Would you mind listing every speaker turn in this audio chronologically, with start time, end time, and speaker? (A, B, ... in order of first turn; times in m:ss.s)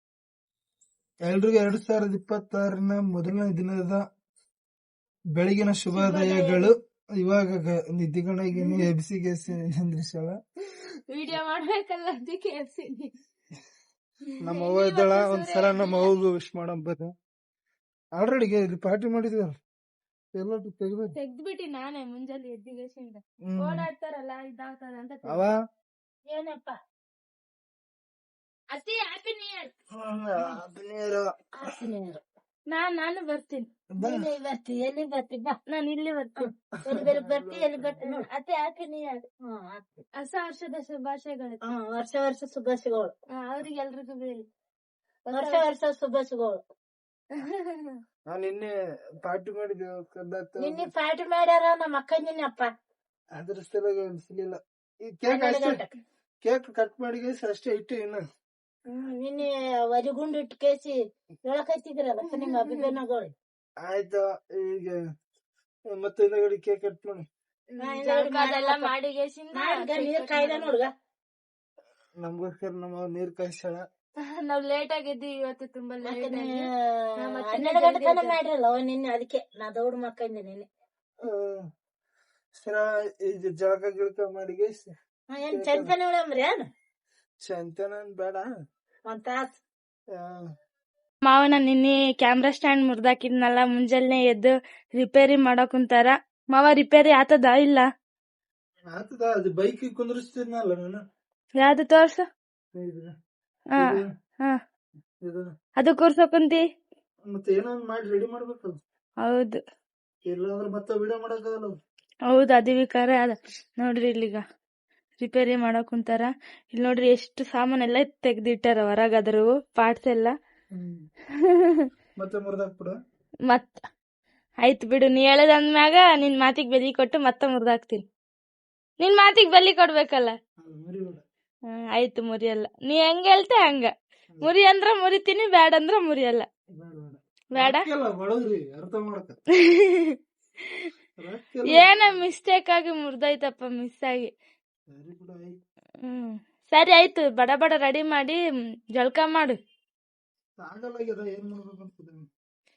0:01.2-0:04.0 A
0:05.4-0:10.4 A
0:05.9-0:06.7 B
0:08.6-0:08.8 B
0:10.7-0:13.1 B
0:14.4-0:17.1 A
0:14.5-0:16.1 B
0:18.2-0:19.6 A
0:20.4-0:21.1 A
0:21.2-0:25.5 B
0:23.5-0:23.9 A
0:25.3-0:25.6 A
0:26.3-0:26.8 C
0:28.7-0:29.7 B
0:29.9-0:31.7 A
0:31.6-0:32.2 C
0:32.7-0:33.7 B
0:34.0-0:34.3 A
0:34.0-0:35.6 C
0:35.7-0:36.5 B
0:36.4-0:38.3 C
0:36.8-0:37.9 A
0:38.0-0:39.3 B
0:39.4-0:39.8 C
0:40.2-0:41.6 B
0:41.6-0:43.1 C
0:43.4-0:44.4 B
0:45.3-0:45.7 B
0:45.3-0:46.6 C
0:47.4-0:48.0 B
0:48.3-0:48.7 A
0:49.2-0:50.9 A
0:50.6-0:52.7 C
0:53.4-0:54.6 A
0:55.1-0:55.8 A
0:55.3-0:56.0 C
0:56.4-0:58.2 A
0:58.9-1:03.3 C
1:02.4-1:02.9 B
1:03.8-1:05.0 A
1:05.9-1:07.3 A
1:07.7-1:10.7 B
1:07.8-1:08.9 C
1:09.5-1:10.9 C
1:12.2-1:13.8 A
1:14.4-1:16.7 B
1:16.0-1:20.7 C
1:17.2-1:18.4 B
1:21.2-1:21.6 A
1:22.5-1:24.9 A
1:25.3-1:26.7 C
1:25.5-1:25.9 A
1:27.4-1:28.5 A
1:29.1-1:29.6 C
1:30.2-1:30.4 A
1:31.2-1:37.9 B
1:38.9-1:41.0 A
1:41.6-1:42.3 B
1:42.7-1:43.1 A
1:43.7-1:44.6 B
1:43.8-1:44.1 A
1:45.8-1:46.6 B
1:47.3-1:48.8 A
1:49.2-1:49.6 B
1:50.2-1:51.7 A
1:52.3-1:54.4 B
1:55.2-2:00.3 B
2:00.7-2:01.1 A
2:01.4-2:01.9 B
2:02.2-2:02.9 A
2:03.5-2:03.8 B
2:04.6-2:08.0 B
2:09.0-2:10.4 B
2:10.6-2:11.2 A
2:11.7-2:13.9 B
2:14.4-2:16.5 B
2:16.8-2:19.4 A
2:17.6-2:17.8 B
2:19.6-2:20.2 B
2:21.2-2:22.3 A
2:21.7-2:24.3 B
2:24.9-2:25.6 A
2:26.0-2:28.4 B
2:29.0-2:29.6 B
2:30.6-2:32.3 A